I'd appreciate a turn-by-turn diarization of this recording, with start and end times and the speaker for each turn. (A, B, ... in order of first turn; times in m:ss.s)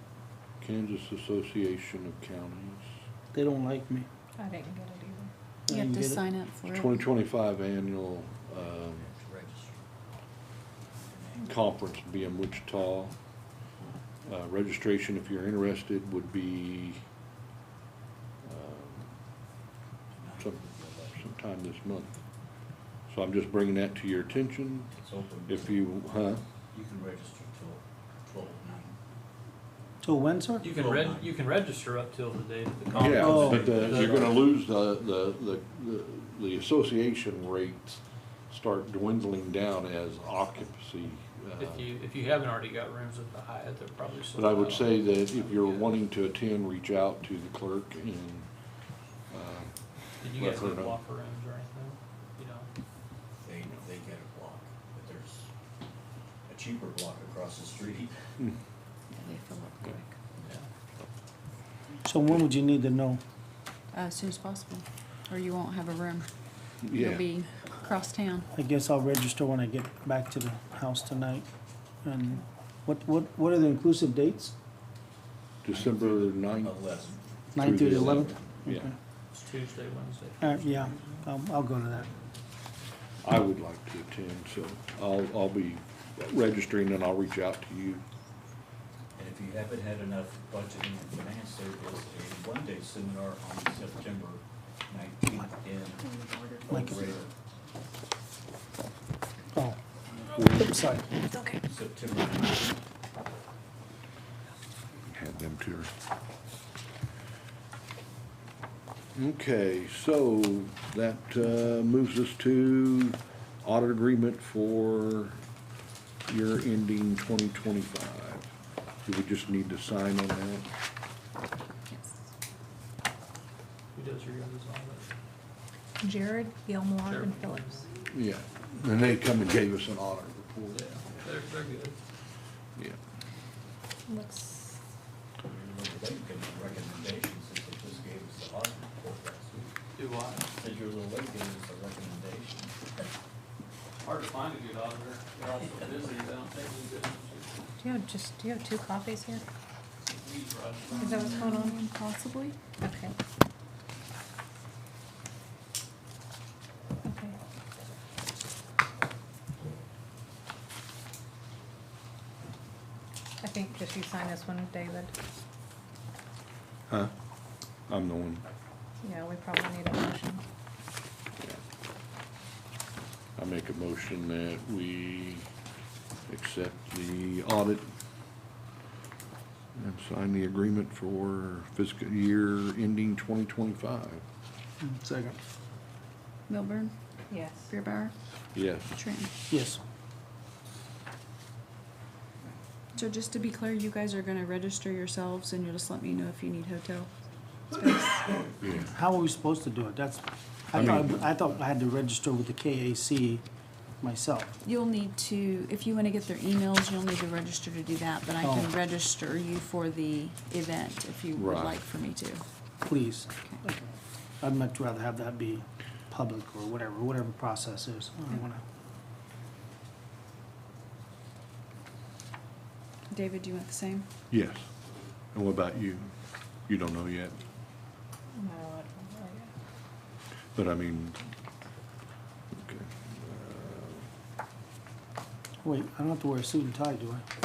0:00.6-0:02.9 A
0:03.3-0:04.1 B
0:04.4-0:05.3 C
0:05.7-0:06.2 B
0:05.7-0:07.1 D
0:06.6-0:09.1 A
0:09.0-0:09.9 E
0:11.0-0:11.5 E
0:11.4-0:13.2 A
0:14.3-0:17.0 A
0:18.4-0:19.1 A
0:20.1-0:21.3 E
0:21.1-0:22.2 A
0:23.1-0:24.9 A
0:24.9-0:25.8 E
0:25.5-0:26.4 A
0:26.7-0:29.0 E
0:30.0-0:30.6 B
0:30.6-0:34.4 F
0:30.6-0:31.4 E
0:32.9-0:34.3 E
0:33.0-0:38.0 A
0:33.2-0:33.7 B
0:38.5-0:41.9 A
0:41.6-0:46.0 F
0:44.3-0:48.5 A
0:49.3-0:49.7 A
0:50.2-0:52.7 F
0:50.2-0:51.0 A
0:53.4-0:55.5 E
0:56.5-0:58.2 E
0:59.1-1:00.1 D
1:02.1-1:03.2 B
1:03.9-1:06.3 D
1:06.9-1:07.2 A
1:06.9-1:08.5 D
1:08.6-1:11.5 B
1:12.0-1:14.5 B
1:15.6-1:16.8 A
1:15.7-1:18.3 E
1:17.6-1:18.9 B
1:17.6-1:18.9 A
1:19.3-1:21.2 F
1:20.4-1:22.1 B
1:23.2-1:28.0 A
1:29.2-1:37.3 E
1:40.5-1:41.1 B
1:41.2-1:41.6 C
1:41.6-1:42.8 E
1:45.1-1:45.9 A
1:49.1-1:55.4 A
1:56.3-1:58.5 A
1:59.0-2:00.7 A
2:03.9-2:05.1 F
2:06.0-2:07.8 C
2:07.0-2:07.8 F
2:08.1-2:10.9 A
2:10.7-2:12.0 F
2:14.1-2:14.8 C
2:15.4-2:19.7 E
2:20.0-2:20.4 F
2:20.5-2:22.8 E
2:24.0-2:27.5 F
2:27.8-2:29.4 C
2:30.0-2:31.4 F
2:30.9-2:31.8 C
2:31.0-2:32.6 D
2:32.8-2:33.1 C
2:37.0-2:37.4 C
2:43.4-2:45.1 C
2:47.9-2:48.4 A
2:49.0-2:50.4 C
2:53.4-2:55.5 A
2:56.3-2:57.8 A
2:59.8-3:04.2 A
3:04.8-3:05.4 B
3:06.5-3:07.0 D
3:07.3-3:07.7 C
3:07.7-3:08.1 D
3:08.5-3:09.0 A
3:08.9-3:09.3 D
3:09.5-3:09.8 B
3:12.9-3:17.1 D
3:17.7-3:18.5 D
3:18.6-3:18.9 A
3:18.9-3:23.4 B
3:20.7-3:21.2 A
3:24.0-3:24.5 B
3:24.6-3:32.4 D
3:28.4-3:28.7 B
3:31.3-3:31.8 A
3:32.8-3:33.9 B
3:34.4-3:38.6 B
3:43.1-3:44.1 D
3:44.3-3:44.7 A
3:45.3-3:46.1 A
3:46.7-3:47.4 A
3:48.4-3:49.5 C
3:50.6-3:51.2 A
3:52.6-3:54.1 A
3:55.6-3:57.2 B